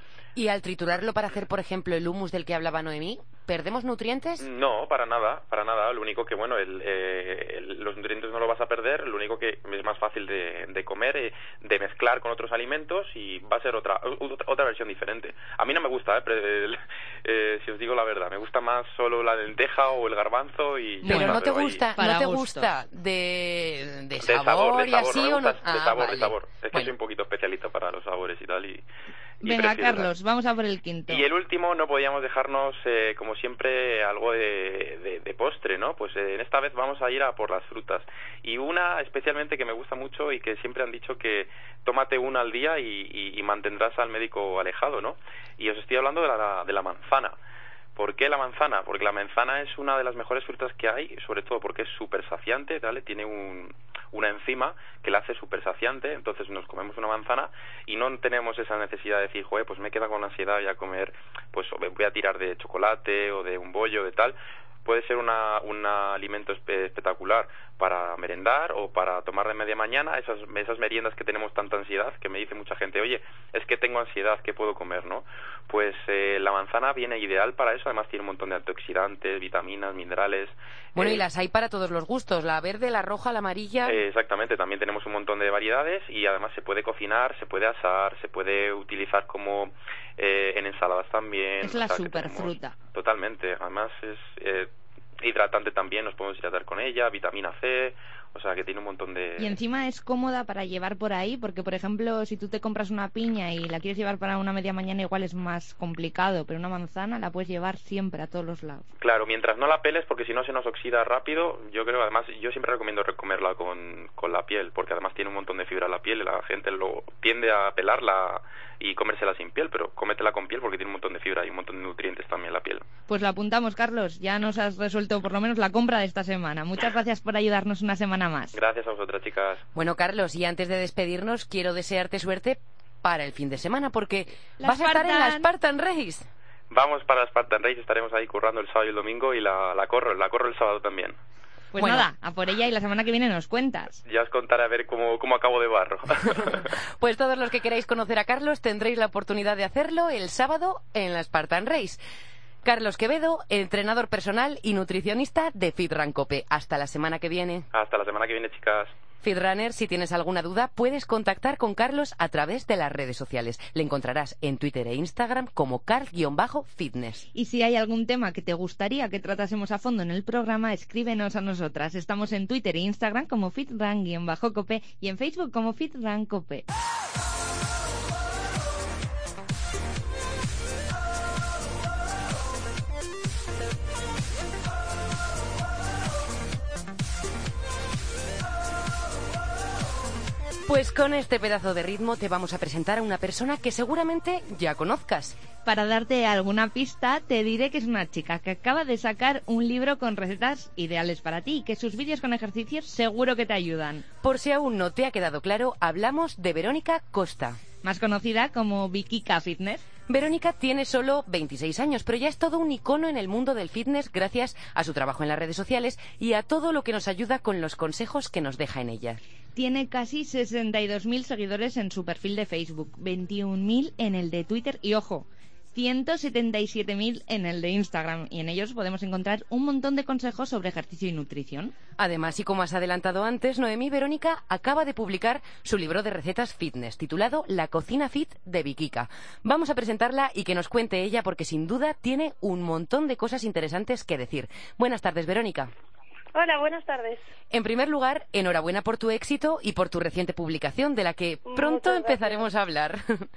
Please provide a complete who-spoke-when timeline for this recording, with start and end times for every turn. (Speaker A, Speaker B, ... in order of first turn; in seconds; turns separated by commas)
Speaker A: 0.3-4.5, Speaker B: 4.4-21.9, Speaker A: 21.1-26.9, Speaker C: 21.1-21.4, Speaker C: 22.0-22.7, Speaker B: 24.2-28.9, Speaker B: 29.4-30.1, Speaker C: 29.4-31.2, Speaker B: 31.1-47.4, Speaker B: 48.0-81.2, Speaker A: 81.0-84.0, Speaker B: 83.8-94.7, Speaker C: 91.6-92.7, Speaker B: 95.2-99.6, Speaker C: 99.4-108.9, Speaker B: 109.0-122.8, Speaker C: 123.1-128.6, Speaker B: 128.5-129.6, Speaker A: 129.8-136.3, Speaker C: 134.6-135.5, Speaker B: 136.7-141.2, Speaker C: 141.7-144.0, Speaker A: 141.8-142.1, Speaker B: 144.1-146.7, Speaker A: 146.3-152.0, Speaker A: 152.6-157.7, Speaker B: 157.7-158.9, Speaker A: 159.2-167.3, Speaker C: 167.3-176.7, Speaker A: 190.7-195.4, Speaker C: 195.7-204.1, Speaker A: 204.2-207.6, Speaker C: 207.8-209.8, Speaker A: 210.1-219.2, Speaker C: 219.6-231.7, Speaker A: 232.0-245.7, Speaker D: 246.3-247.3, Speaker A: 247.5-253.3, Speaker D: 251.5-252.5